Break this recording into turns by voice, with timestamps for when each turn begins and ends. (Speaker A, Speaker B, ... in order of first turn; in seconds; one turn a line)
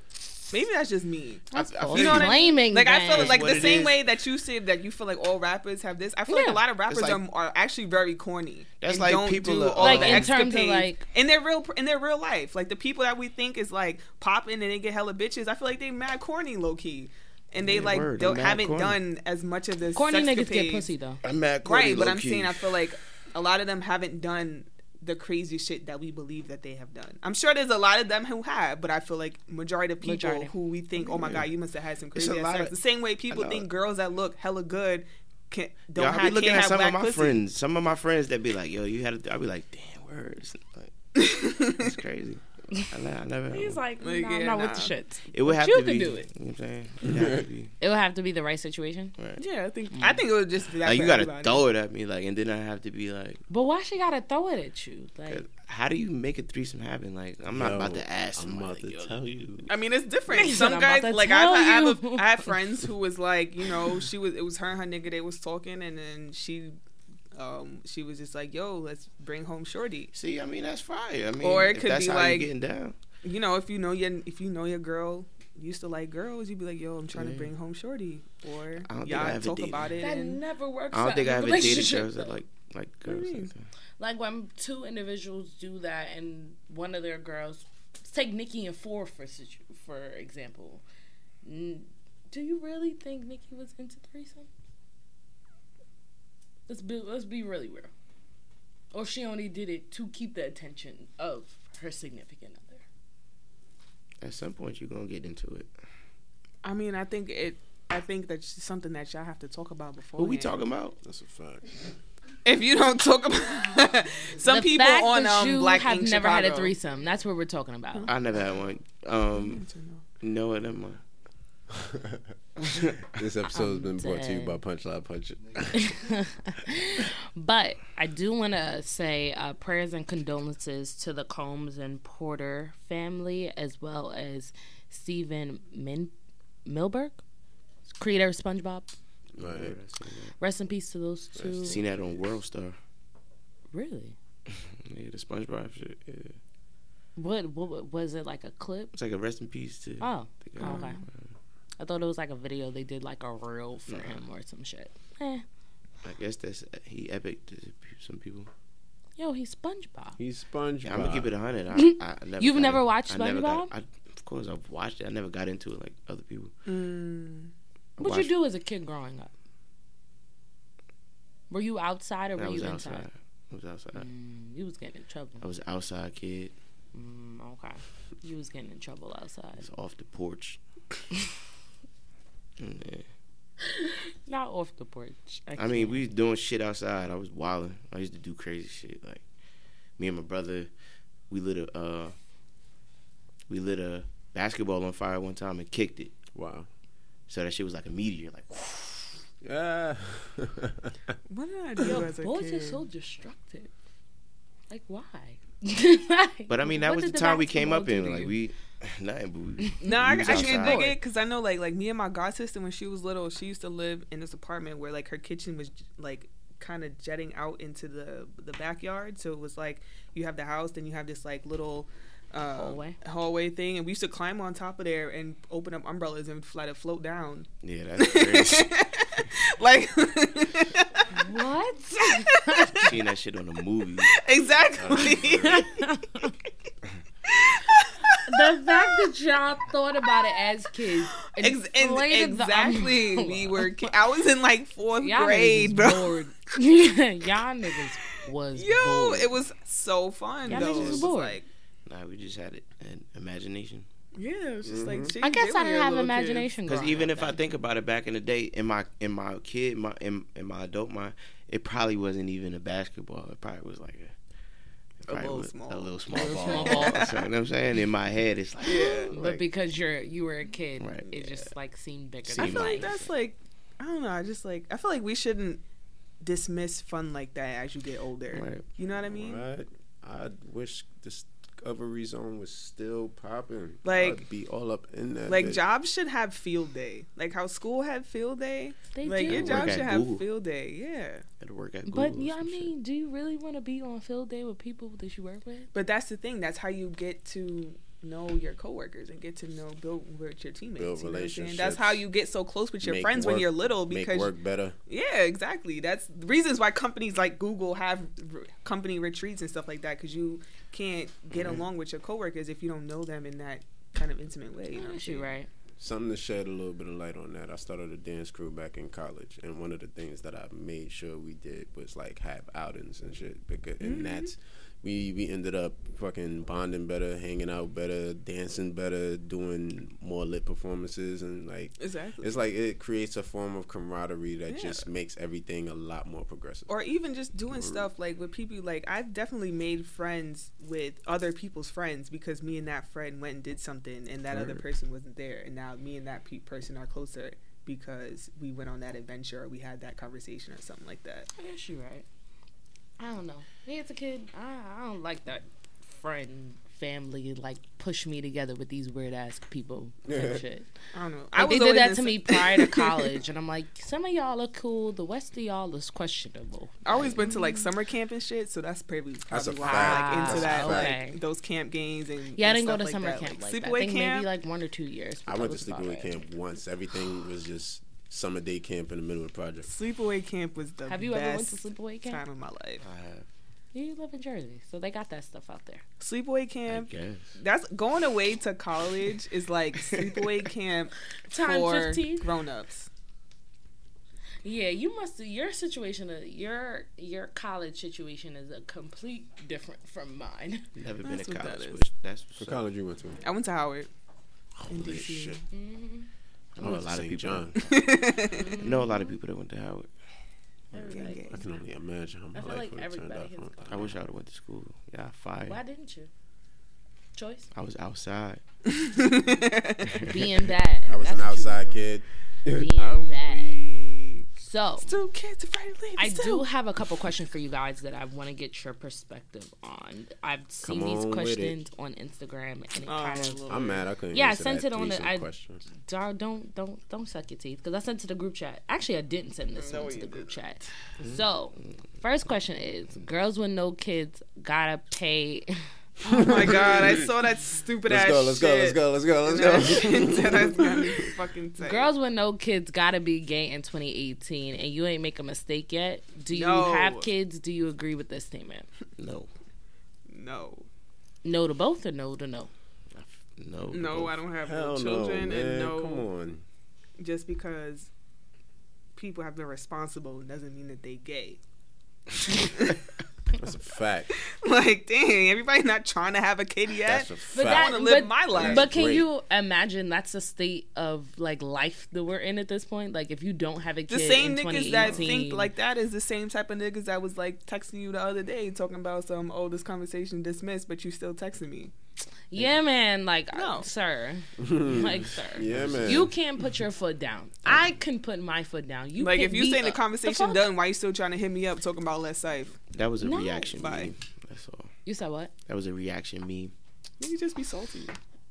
Speaker A: 0.5-20.9
Speaker B: 1.5-3.8
Speaker C: 1.5-2.5
Speaker C: 3.0-4.0
Speaker B: 6.3-6.6
Speaker C: 6.9-7.2
Speaker C: 8.8-10.3
Speaker B: 9.8-11.0
Speaker C: 17.6-19.0
Speaker B: 19.9-21.2
Speaker C: 21.2-22.6
Speaker A: 21.6-37.4
Speaker B: 30.0-30.5
Speaker C: 31.0-31.5
Speaker C: 32.1-32.7
Speaker C: 33.3-33.6
Speaker C: 35.9-40.9
Speaker A: 41.1-41.9
Speaker C: 41.7-43.8
Speaker B: 43.5-46.3
Speaker A: 44.0-44.9
Speaker C: 45.3-47.7
Speaker B: 47.8-49.1
Speaker A: 49.4-51.6
Speaker C: 50.8-53.4
Speaker B: 53.5-55.4
Speaker C: 55.3-59.7
Speaker D: 57.5-59.4
Speaker A: 59.7-66.7
Speaker B: 60.3-62.5
Speaker A: 67.3-70.1
Speaker C: 70.1-72.9
Speaker A: 71.4-72.5
Speaker A: 73.2-80.4
Speaker C: 77.1-77.5
Speaker C: 78.9-80.0
Speaker B: 80.0-82.4
Speaker C: 80.9-83.7
Speaker A: 83.0-83.5
Speaker B: 84.0-90.8
Speaker B: 91.4-94.5
Speaker B: 96.7-97.9
Speaker B: 98.9-102.8
Speaker C: 104.2-105.7
Speaker A: 106.6-110.6
Speaker C: 110.2-111.0
Speaker D: 111.0-111.8
Speaker A: 112.4-116.7
Speaker B: 114.4-118.1
Speaker C: 118.1-119.6
Speaker A: 119.3-120.0
Speaker C: 120.2-121.0
Speaker D: 121.8-122.2
Speaker C: 122.6-123.1
Speaker D: 123.1-125.8
Speaker B: 123.5-124.6
Speaker B: 125.7-136.1
Speaker B: 136.7-137.2
Speaker B: 137.9-138.9
Speaker D: 139.4-139.8
Speaker C: 139.4-140.3
Speaker B: 140.4-141.8
Speaker C: 141.6-142.8
Speaker B: 143.7-144.2
Speaker C: 144.5-146.3
Speaker B: 147.2-148.9
Speaker C: 148.9-151.3
Speaker B: 150.0-151.0
Speaker A: 150.6-151.0
Speaker B: 151.8-155.4
Speaker C: 153.9-154.2
Speaker C: 156.0-158.5
Speaker B: 159.2-160.2
Speaker D: 160.2-161.3
Speaker C: 160.8-166.5
Speaker B: 161.7-163.7
Speaker A: 166.7-167.5
Speaker C: 168.0-168.3
Speaker B: 168.0-169.3
Speaker B: 171.5-173.1
Speaker C: 172.3-174.1
Speaker B: 173.9-175.4
Speaker C: 175.4-176.5
Speaker B: 176.9-179.7
Speaker C: 179.6-180.6
Speaker C: 182.6-183.1
Speaker B: 183.6-186.1
Speaker C: 185.6-189.2
Speaker C: 190.0-190.7
Speaker C: 191.3-192.1
Speaker C: 193.5-196.1
Speaker D: 196.3-196.7
Speaker C: 197.3-199.0
Speaker D: 199.4-201.1
Speaker A: 201.3-202.8
Speaker B: 201.8-203.7
Speaker B: 204.7-208.3
Speaker C: 206.5-210.8
Speaker B: 209.7-211.0
Speaker A: 209.8-231.1
Speaker B: 222.5-222.9
Speaker C: 227.6-228.7
Speaker B: 231.1-232.9
Speaker A: 232.0-232.9
Speaker C: 232.8-234.1
Speaker A: 234.0-235.8
Speaker D: 234.8-235.6
Speaker B: 235.2-236.3
Speaker A: 237.2-239.1
Speaker B: 238.2-243.9
Speaker A: 241.3-246.2
Speaker B: 245.0-249.3
Speaker A: 248.5-251.4
Speaker B: 250.5-251.4
Speaker D: 250.5-251.0
Speaker C: 250.5-251.0
Speaker C: 251.8-253.9
Speaker A: 254.1-256.5
Speaker D: 254.6-255.1
Speaker B: 255.2-257.4
Speaker C: 256.6-264.1
Speaker C: 265.1-269.4
Speaker A: 265.1-267.3
Speaker B: 266.1-267.1
Speaker A: 268.6-269.1
Speaker B: 269.1-273.0
Speaker C: 270.8-271.3
Speaker C: 272.3-273.1
Speaker A: 272.3-275.6
Speaker A: 276.2-279.4
Speaker C: 278.3-278.6
Speaker D: 279.1-285.6
Speaker A: 283.8-284.2
Speaker A: 285.3-291.2
Speaker B: 288.9-289.8
Speaker C: 289.3-290.2
Speaker C: 291.4-292.7
Speaker B: 291.9-295.7
Speaker A: 295.7-304.3
Speaker D: 300.8-302.0
Speaker D: 302.8-304.8
Speaker A: 304.9-315.3
Speaker B: 314.7-315.5
Speaker D: 315.8-336.7
Speaker A: 323.8-324.3
Speaker A: 331.8-332.4
Speaker A: 334.5-334.8
Speaker A: 336.7-351.3
Speaker D: 337.5-337.9
Speaker C: 344.3-344.6
Speaker B: 351.4-352.0
Speaker B: 353.0-360.7
Speaker D: 360.1-360.4
Speaker A: 360.9-363.2
Speaker B: 361.4-367.7
Speaker A: 366.8-374.3
Speaker D: 369.3-370.9
Speaker B: 369.6-371.2
Speaker B: 372.4-376.2
Speaker D: 375.2-379.7
Speaker A: 379.6-382.8
Speaker B: 380.9-382.2
Speaker C: 382.8-383.2
Speaker B: 383.7-385.8
Speaker A: 386.0-392.9
Speaker C: 386.7-387.3
Speaker C: 389.9-390.3
Speaker B: 391.3-392.3
Speaker B: 394.4-400.7
Speaker C: 400.8-402.6
Speaker A: 401.0-401.8
Speaker D: 402.4-403.2
Speaker A: 403.2-403.9
Speaker D: 404.6-405.4
Speaker A: 404.7-405.4
Speaker B: 405.5-406.1
Speaker C: 406.5-407.5
Speaker D: 406.6-407.6
Speaker A: 407.6-408.5
Speaker B: 408.3-409.1
Speaker C: 408.6-409.9
Speaker B: 410.7-411.4
Speaker A: 410.9-411.4
Speaker D: 411.3-413.9
Speaker B: 412.3-413.8
Speaker C: 413.7-415.6
Speaker B: 415.4-416.1
Speaker B: 417.1-417.5
Speaker C: 417.5-418.4
Speaker A: 418.6-420.1
Speaker C: 419.8-420.2
Speaker B: 420.0-421.9
Speaker D: 420.9-422.7
Speaker B: 422.5-423.6
Speaker A: 422.8-424.2
Speaker B: 424.4-424.9
Speaker A: 424.8-426.5
Speaker B: 426.0-433.4
Speaker D: 430.6-431.6
Speaker A: 432.8-433.8
Speaker D: 433.5-435.6
Speaker B: 434.1-435.3
Speaker B: 435.8-445.5
Speaker A: 439.5-440.4
Speaker C: 441.0-441.7
Speaker A: 446.0-451.9
Speaker D: 446.1-447.0
Speaker D: 447.9-451.1
Speaker B: 451.6-458.7
Speaker A: 456.3-457.1
Speaker C: 459.0-459.3
Speaker A: 460.1-460.6
Speaker B: 461.2-462.5
Speaker C: 462.9-464.2
Speaker A: 463.7-466.1
Speaker D: 464.4-466.4
Speaker A: 467.0-467.9
Speaker A: 468.9-471.4
Speaker A: 472.3-472.8
Speaker D: 473.3-474.1
Speaker A: 474.1-478.7
Speaker D: 476.8-477.8
Speaker B: 477.3-485.5
Speaker D: 478.3-479.1
Speaker A: 483.9-491.7
Speaker B: 492.3-500.4
Speaker A: 493.3-493.7
Speaker D: 494.4-496.1
Speaker C: 495.5-496.0
Speaker A: 499.0-502.6
Speaker C: 502.7-504.7
Speaker B: 503.0-503.5
Speaker A: 503.5-503.9
Speaker B: 504.9-505.3
Speaker C: 505.5-506.5
Speaker A: 507.0-507.9